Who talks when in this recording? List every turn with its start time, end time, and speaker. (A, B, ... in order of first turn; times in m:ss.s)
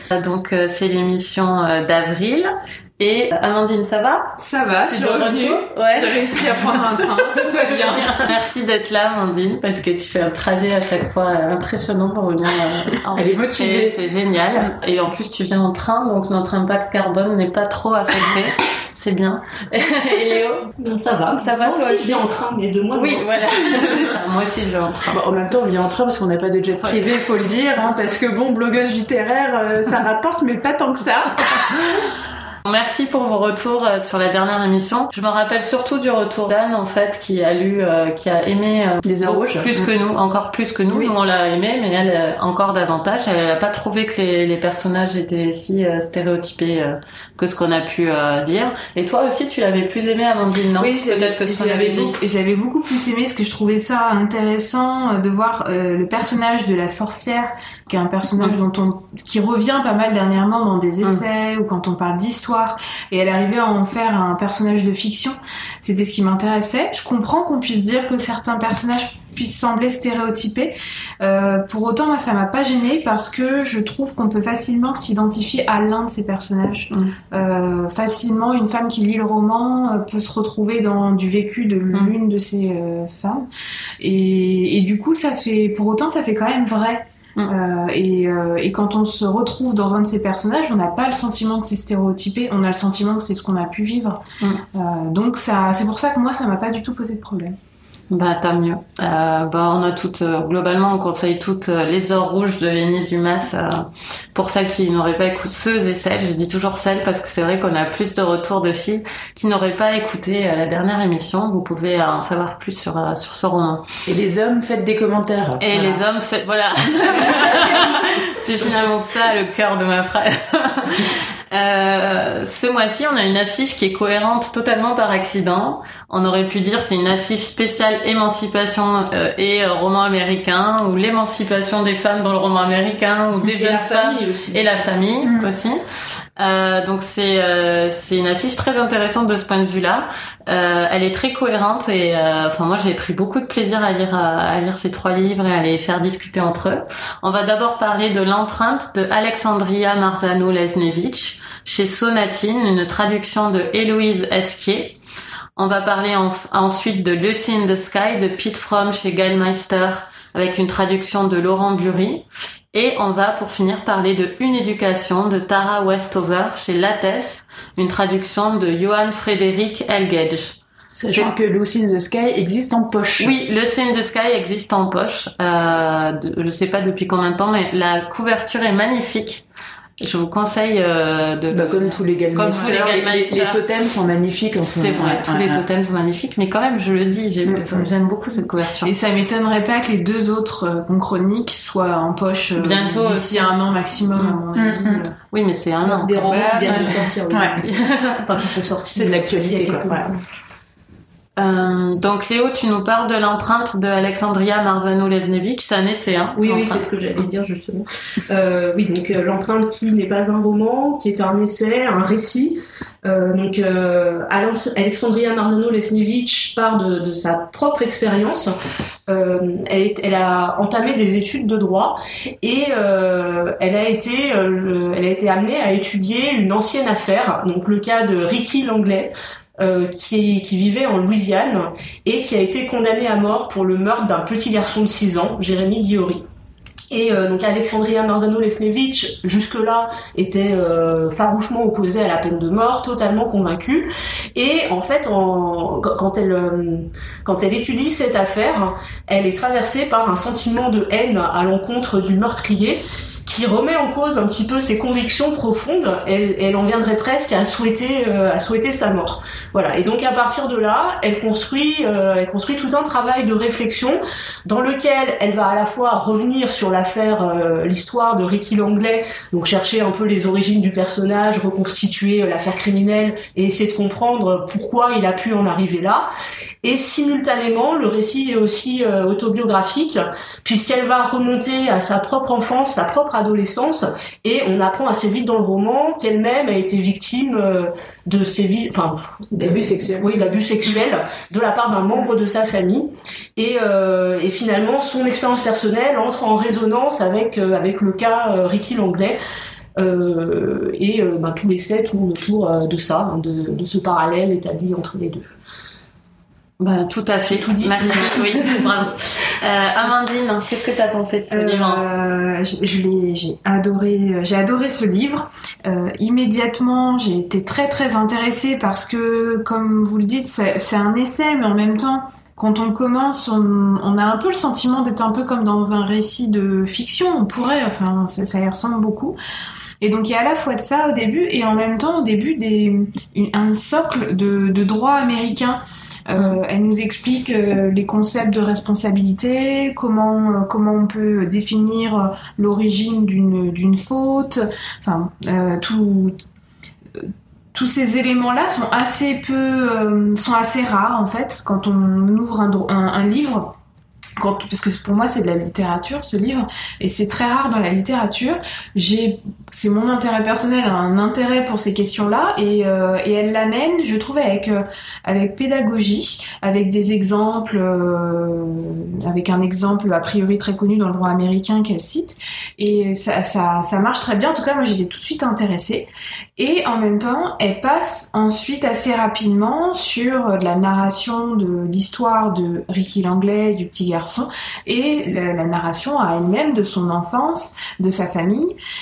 0:00.1-0:04.3 A
0:04.4-0:08.3 B
0:04.9-0:20.7 A
0:13.1-0:14.0 C
0:20.8-0:24.0 D
0:21.4-0:22.3 A
0:22.9-0:25.2 A
0:25.0-0:31.8 C
0:26.8-0:27.2 A
0:27.8-0:28.2 A
0:32.6-0:52.2 A
0:39.0-0:39.9 C
0:50.8-1:23.4 B
1:24.0-1:34.2 B
1:34.7-1:37.6 B
1:38.1-1:53.8 A
1:54.0-1:56.0 C
1:55.6-2:15.8 A
1:57.1-1:57.6 C
2:13.6-2:14.6 D
2:15.2-2:15.5 C
2:16.4-2:35.0 A
2:35.6-2:51.3 A
2:51.0-2:53.3 C
2:53.2-2:59.4 A
3:00.0-3:03.6 A
3:01.5-3:05.6 C
3:04.6-3:08.9 A
3:07.4-3:07.9 C
3:08.8-3:15.1 B
3:12.6-3:13.5 A
3:14.1-3:14.4 A
3:14.6-3:15.0 C
3:15.2-3:16.6 A
3:15.8-3:17.6 D
3:16.2-3:17.1 B
3:16.7-3:17.6 C
3:17.6-3:18.3 A
3:18.2-3:20.2 D
3:18.9-3:20.0 C
3:21.4-3:26.8 A
3:26.4-3:38.5 D
3:39.1-3:56.2 D
3:56.9-4:36.1 D
4:36.6-4:59.2 D
4:49.3-4:50.3 C
4:59.8-5:05.3 D
5:06.6-5:11.8 A
5:07.3-5:08.7 D
5:11.3-5:29.2 B
5:29.8-5:46.2 B
5:46.9-5:53.5 B
5:54.2-6:28.6 B